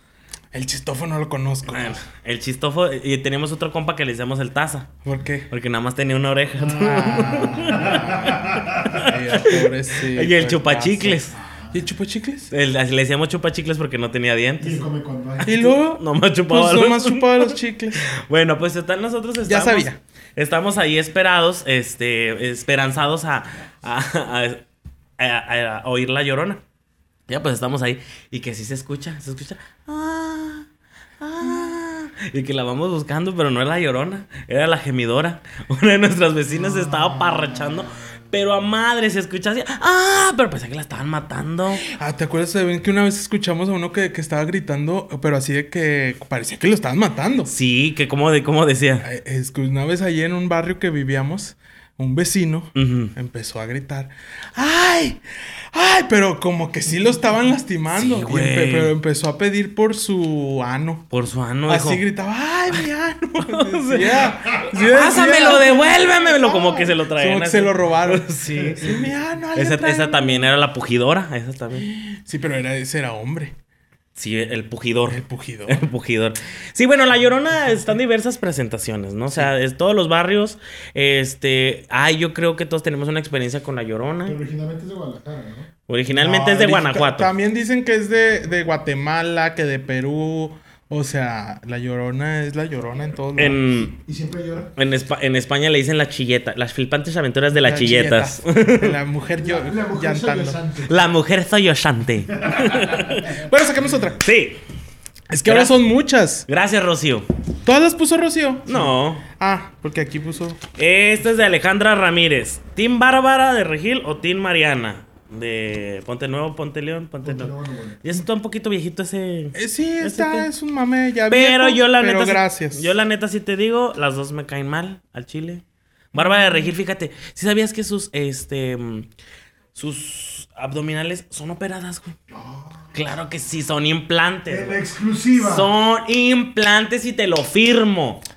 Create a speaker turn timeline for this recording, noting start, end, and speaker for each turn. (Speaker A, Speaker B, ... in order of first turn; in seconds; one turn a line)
Speaker A: 0.5-2.0
Speaker B: 1.7-4.9
Speaker A: 5.0-5.5
Speaker B: 5.5-11.3
Speaker C: 6.6-8.9
Speaker A: 6.8-12.5
Speaker C: 11.3-11.8
Speaker B: 12.5-14.9
Speaker C: 14.6-15.8
Speaker A: 15.5-18.0
Speaker B: 15.9-24.6
Speaker A: 19.4-20.0
Speaker B: 25.2-26.6
Speaker B: 27.3-30.7
Speaker B: 31.2-41.8
Speaker A: 41.8-47.5
Speaker B: 47.5-49.1
Speaker A: 49.0-55.2
Speaker B: 52.8-53.1
Speaker A: 55.7-61.1
Speaker B: 57.9-58.9
Speaker B: 61.1-62.0
Speaker A: 61.7-70.5
Speaker B: 63.4-69.0
Speaker B: 69.5-71.9
Speaker A: 71.8-73.5
Speaker B: 74.2-84.4
Speaker A: 75.1-75.8
Speaker C: 84.3-85.7
Speaker B: 85.9-87.3
Speaker A: 86.1-93.7
Speaker B: 93.4-93.9
Speaker C: 93.9-94.7
Speaker B: 94.8-99.0
Speaker A: 97.5-100.6
Speaker C: 99.4-101.0
Speaker B: 100.8-103.4
Speaker C: 102.4-103.2
Speaker A: 103.3-104.2
Speaker B: 104.2-104.6
Speaker A: 105.3-106.5
Speaker B: 105.4-105.8
Speaker B: 106.5-107.3
Speaker A: 107.7-110.6
Speaker B: 108.7-109.2
Speaker B: 110.8-120.5
Speaker C: 117.2-118.0
Speaker A: 119.5-122.9
Speaker B: 121.3-129.1
Speaker A: 126.1-126.7
Speaker B: 129.8-132.2
Speaker C: 132.3-132.9
Speaker B: 132.9-134.8
Speaker C: 134.5-135.7
Speaker B: 135.4-138.2